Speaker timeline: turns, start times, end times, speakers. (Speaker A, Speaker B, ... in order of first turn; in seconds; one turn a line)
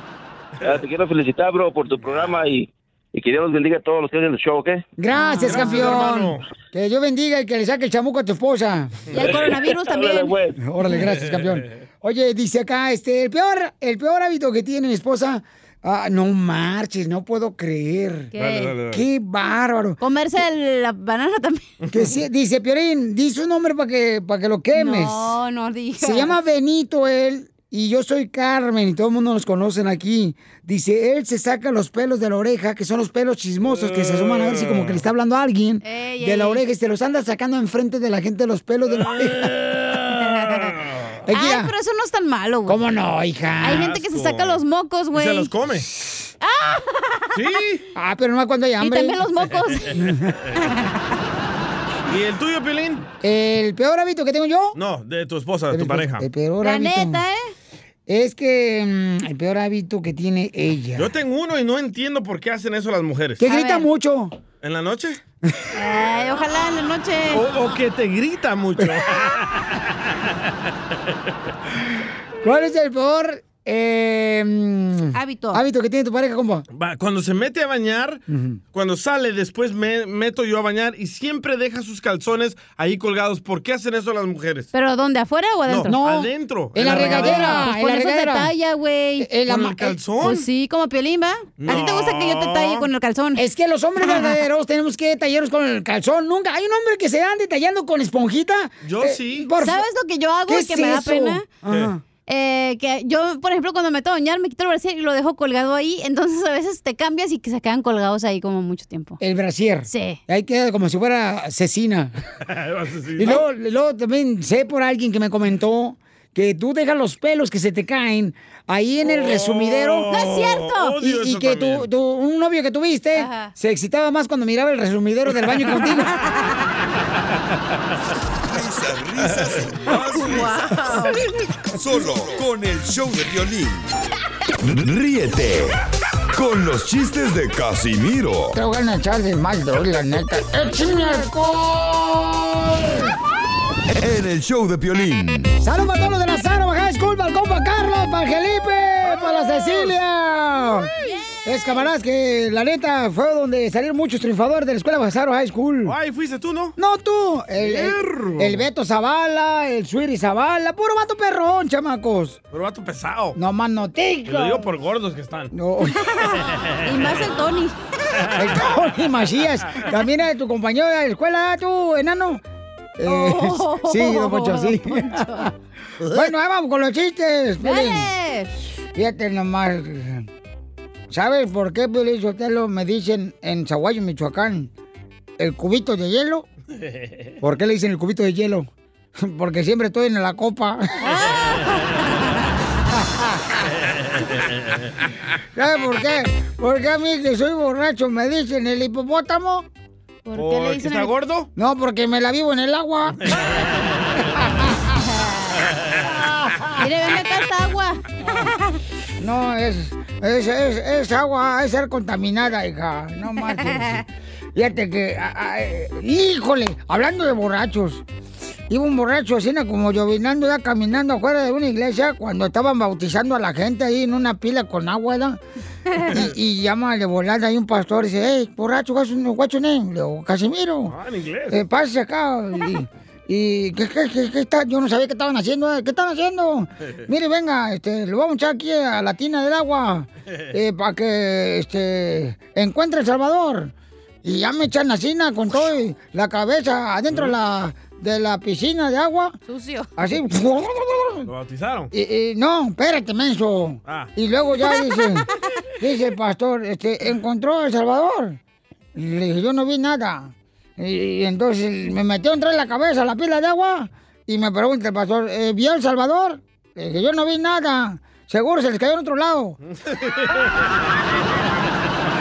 Speaker A: 0.6-4.8
Speaker B: 5.0-8.9
Speaker C: 5.1-5.9
Speaker D: 5.4-6.4
Speaker C: 9.1-10.3
Speaker A: 9.2-10.6
Speaker B: 10.6-18.3
Speaker C: 18.3-18.8
Speaker D: 18.4-19.0
Speaker B: 18.9-20.0
Speaker C: 20.0-21.7
Speaker B: 21.9-25.3
Speaker C: 24.7-26.4
Speaker B: 26.0-39.5
Speaker D: 33.7-35.0
Speaker C: 35.8-36.6
Speaker D: 38.9-41.1
Speaker C: 40.2-40.6
Speaker B: 41.3-41.7
Speaker C: 41.3-42.8
Speaker B: 42.6-43.9
Speaker C: 43.6-45.5
Speaker D: 43.6-44.6
Speaker D: 45.1-45.9
Speaker C: 46.4-47.5
Speaker D: 47.3-47.8
Speaker B: 47.9-49.2
Speaker C: 48.8-50.0
Speaker B: 49.9-50.3
Speaker C: 50.5-51.0
Speaker D: 52.0-53.1
Speaker B: 53.2-54.8
Speaker D: 54.7-56.3
Speaker B: 55.7-57.2
Speaker C: 56.6-57.5
Speaker B: 58.1-61.1
Speaker D: 61.0-63.5
Speaker B: 63.4-64.4
Speaker C: 63.4-63.9
Speaker D: 64.6-65.2
Speaker C: 65.7-67.5
Speaker D: 67.3-70.3
Speaker B: 72.4-76.6
Speaker C: 75.1-75.6
Speaker D: 76.7-84.7
Speaker B: 78.3-78.6
Speaker C: 84.7-86.0
Speaker D: 85.7-87.6
Speaker B: 85.9-88.5
Speaker C: 86.8-89.3
Speaker B: 89.2-90.0
Speaker D: 89.5-90.4
Speaker C: 90.2-93.4
Speaker D: 91.6-92.9
Speaker B: 93.4-99.8
Speaker C: 94.0-94.4
Speaker D: 98.8-99.5
Speaker C: 99.6-101.5
Speaker B: 100.5-102.0
Speaker D: 101.6-101.9
Speaker C: 102.3-109.2
Speaker B: 109.2-112.1
Speaker C: 109.9-110.2
Speaker D: 112.5-113.4
Speaker B: 113.2-120.1
Speaker D: 119.0-121.9
Speaker C: 120.1-121.0
Speaker B: 121.0-126.1
Speaker C: 123.2-123.5
Speaker E: 128.4-131.1
Speaker C: 130.1-131.2
Speaker E: 131.8-133.8
Speaker E: 134.6-135.8
Speaker E: 136.3-138.6
Speaker B: 138.6-143.2
Speaker E: 143.9-145.5
Speaker B: 145.6-150.9
Speaker D: 149.0-149.9
Speaker C: 151.0-151.8
Speaker B: 151.4-155.9
Speaker D: 155.8-156.7
Speaker B: 156.8-162.4
Speaker D: 157.6-158.6
Speaker D: 162.5-163.4
Speaker B: 163.4-164.7
Speaker D: 164.3-165.5
Speaker B: 165.5-166.0
Speaker C: 166.1-167.8
Speaker D: 166.5-167.0
Speaker B: 168.3-172.4
Speaker B: 173.0-175.5
Speaker C: 173.1-175.5
Speaker B: 176.1-178.1
Speaker C: 177.6-178.5
Speaker B: 178.9-180.3
Speaker B: 181.1-184.7
Speaker B: 185.4-186.4
Speaker B: 187.4-191.1
Speaker C: 191.0-192.3
Speaker B: 192.9-193.4
Speaker D: 194.2-194.8
Speaker B: 195.6-199.7
Speaker C: 200.3-201.1
Speaker D: 200.3-201.5
Speaker B: 201.6-203.4
Speaker D: 203.3-204.4
Speaker C: 205.0-205.6
Speaker B: 206.1-206.8
Speaker C: 206.8-208.6
Speaker B: 209.2-218.0
Speaker C: 213.6-213.9
Speaker B: 218.7-225.4
Speaker B: 226.1-230.9
Speaker D: 230.9-231.6
Speaker B: 231.5-243.7
Speaker B: 244.2-249.4
Speaker D: 247.1-247.3
Speaker C: 249.4-249.9
Speaker B: 250.0-251.3
Speaker D: 251.3-251.9
Speaker B: 251.9-255.3
Speaker D: 253.8-254.1
Speaker C: 254.7-255.1
Speaker B: 255.8-258.4
Speaker B: 258.9-269.6
Speaker D: 269.7-270.7